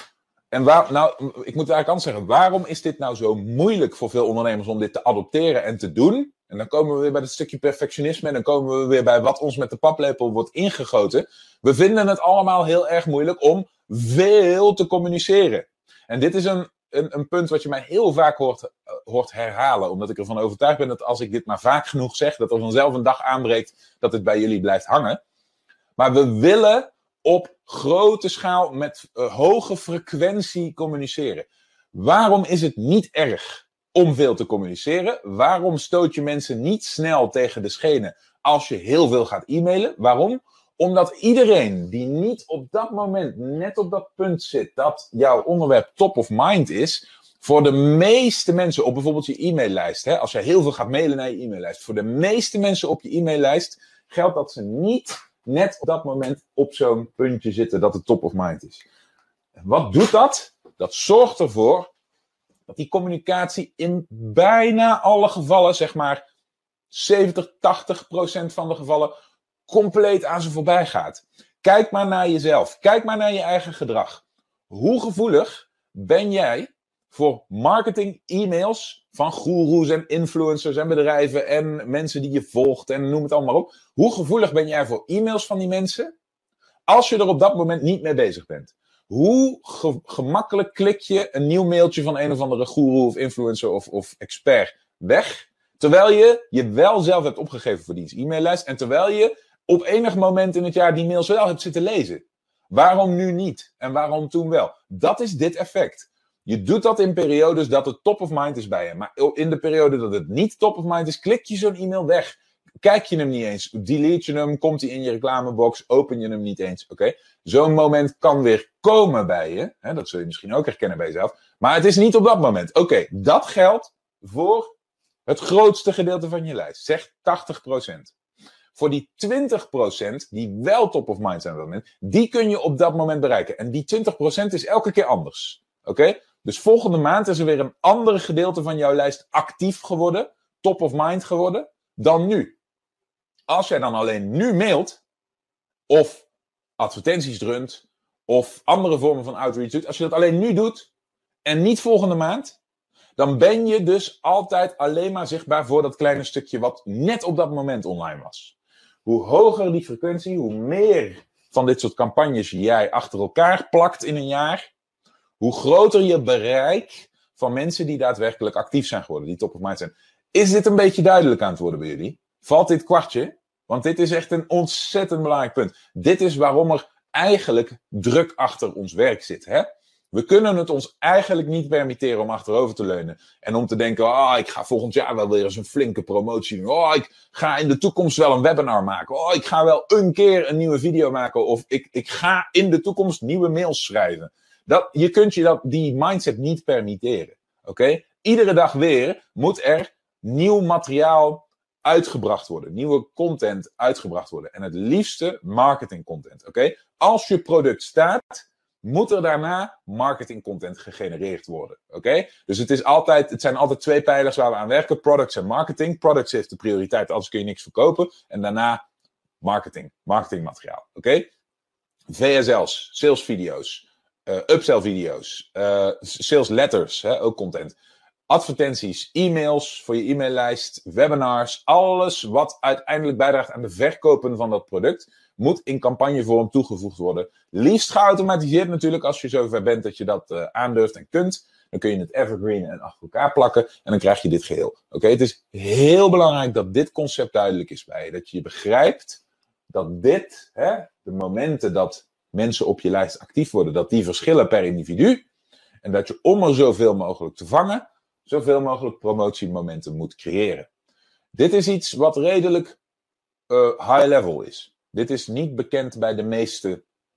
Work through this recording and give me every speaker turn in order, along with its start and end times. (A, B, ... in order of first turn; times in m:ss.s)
0:00.5-0:25.2 A
0:26.0-0:58.8 A
0:59.6-1:01.9 A
1:02.7-1:06.2 A
1:06.9-1:09.1 A
1:09.7-1:26.1 A
1:26.9-2:04.7 A
2:05.3-2:08.1 A
2:08.8-2:22.6 A
2:23.5-2:25.0 A
2:25.9-2:26.3 A
2:26.8-2:30.9 A
2:31.4-2:32.6 A
2:33.2-2:44.6 A
2:45.4-3:38.8 A
3:39.4-3:41.3 A
3:42.1-3:47.8 A
3:48.3-4:15.2 A
4:15.8-4:20.7 A
4:21.4-4:22.8 A
4:23.5-4:26.8 A